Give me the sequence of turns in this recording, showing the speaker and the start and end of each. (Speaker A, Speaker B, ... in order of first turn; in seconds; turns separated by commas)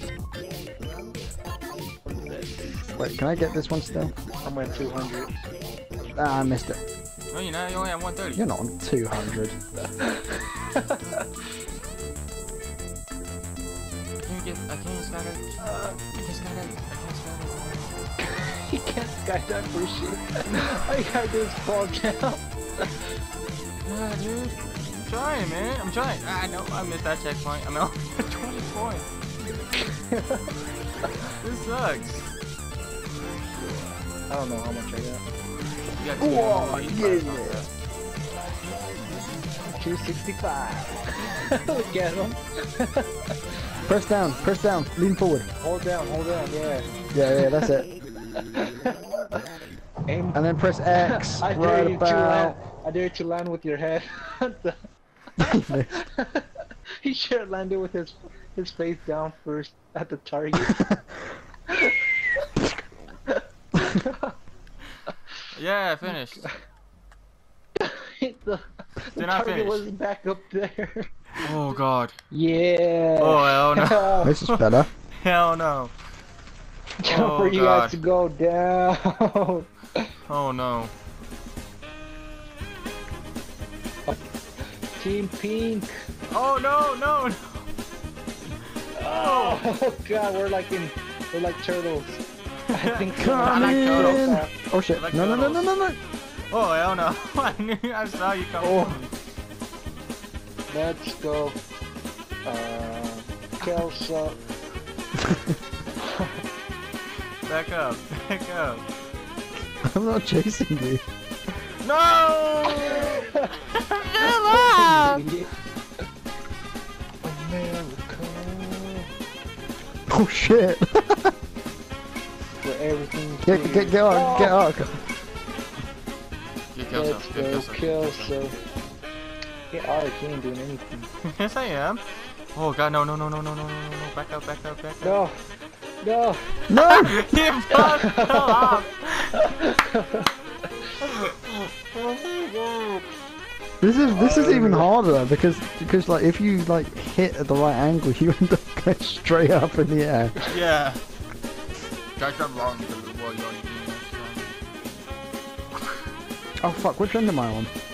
Speaker A: 2.0-2.7, Speaker B: 2.9-4.2, Speaker A: 4.4-5.3, Speaker B: 6.1-6.8, Speaker C: 7.3-8.4, Speaker B: 8.3-9.6, Speaker A: 10.0-11.2, Speaker C: 14.2-15.6, Speaker A: 15.6-16.0, Speaker C: 16.1-17.9, Speaker A: 18.2-22.9, Speaker C: 23.8-29.1, Speaker A: 29.8-30.5, Speaker C: 31.4-32.3, Speaker A: 34.3-35.2, Speaker C: 36.0-37.7, Speaker B: 36.2-37.6, Speaker A: 39.7-43.3, Speaker B: 43.9-45.5, Speaker A: 45.6-47.7, Speaker B: 47.1-47.9, Speaker A: 48.4-49.4, Speaker A: 50.0-50.4, Speaker B: 50.3-52.5, Speaker A: 50.9-54.8, Speaker B: 55.4-55.9, Speaker A: 55.9-56.5, Speaker A: 57.0-60.8, Speaker A: 61.7-62.4, Speaker A: 63.3-64.3, Speaker C: 65.5-66.5, Speaker A: 67.8-71.1, Speaker C: 69.1-69.8, Speaker C: 71.4-72.2, Speaker A: 72.3-74.3, Speaker C: 73.2-75.9, Speaker B: 74.2-74.9, Speaker A: 77.0-80.0, Speaker C: 77.0-78.0, Speaker C: 80.3-80.9, Speaker A: 85.0-85.9, Speaker C: 86.3-87.7, Speaker A: 89.0-94.5, Speaker C: 89.0-89.6, Speaker C: 92.7-94.2, Speaker B: 93.1-96.0, Speaker C: 94.9-95.7, Speaker C: 96.5-99.1, Speaker B: 98.6-98.9, Speaker A: 100.7-101.6, Speaker A: 102.4-104.4, Speaker B: 105.2-105.5, Speaker A: 106.0-106.3, Speaker C: 107.5-108.8, Speaker B: 109.8-111.0, Speaker C: 111.8-115.2, Speaker A: 112.7-113.5, Speaker A: 114.2-115.5, Speaker A: 117.2-119.1, Speaker B: 120.1-121.3, Speaker A: 122.6-124.6, Speaker B: 123.4-125.0, Speaker C: 126.7-128.3, Speaker A: 126.9-128.5, Speaker A: 129.7-131.1, Speaker C: 131.2-132.0, Speaker C: 132.5-135.2, Speaker A: 135.0-135.3, Speaker A: 136.0-136.4, Speaker B: 136.7-137.3, Speaker C: 136.7-139.5, Speaker A: 137.7-138.8, Speaker A: 139.3-140.3, Speaker C: 141.0-143.0, Speaker B: 143.8-150.4, Speaker A: 144.0-144.9, Speaker C: 150.4-151.0, Speaker C: 152.2-154.5, Speaker B: 156.6-157.7